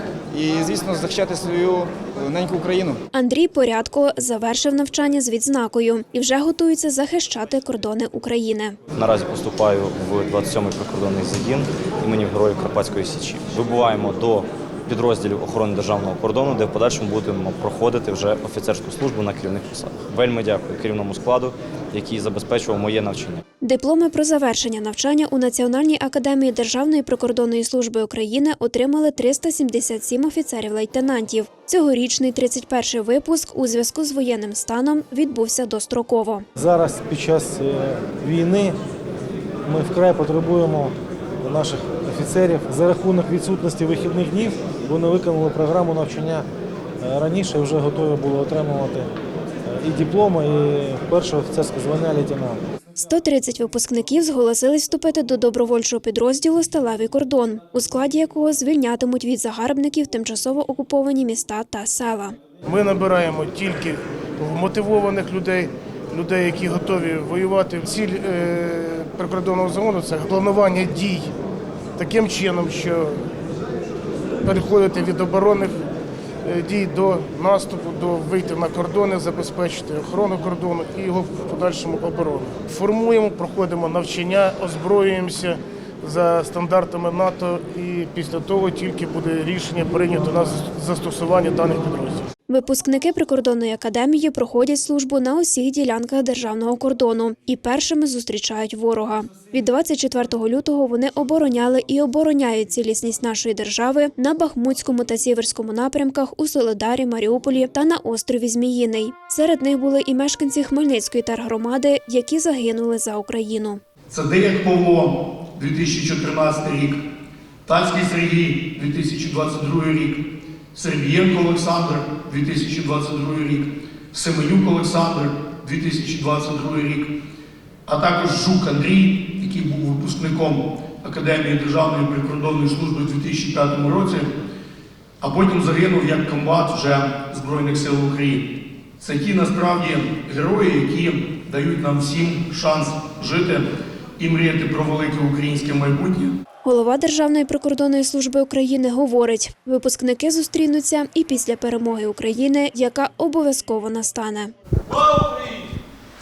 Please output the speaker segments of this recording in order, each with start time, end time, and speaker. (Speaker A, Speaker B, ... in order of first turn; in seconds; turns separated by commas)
Speaker A: 0.3-3.0, Speaker B: 3.1-8.8, Speaker C: 8.9-23.4, Speaker B: 23.6-36.4, Speaker D: 36.5-38.8, Speaker D: 39.6-46.5, Speaker D: 47.0-49.1, Speaker D: 49.7-52.6, Speaker B: 53.0-62.4, Speaker E: 62.6-71.3, Speaker E: 72.0-73.2, Speaker E: 74.4-75.8, Speaker E: 76.4-92.2, Speaker B: 92.5-113.8, Speaker F: 114.1-117.0, Speaker F: 117.7-120.2, Speaker F: 120.7-127.1, Speaker F: 127.9-134.3, Speaker F: 135.2-138.4, Speaker F: 139.0-143.6, Speaker F: 144.2-146.3, Speaker B: 146.6-154.5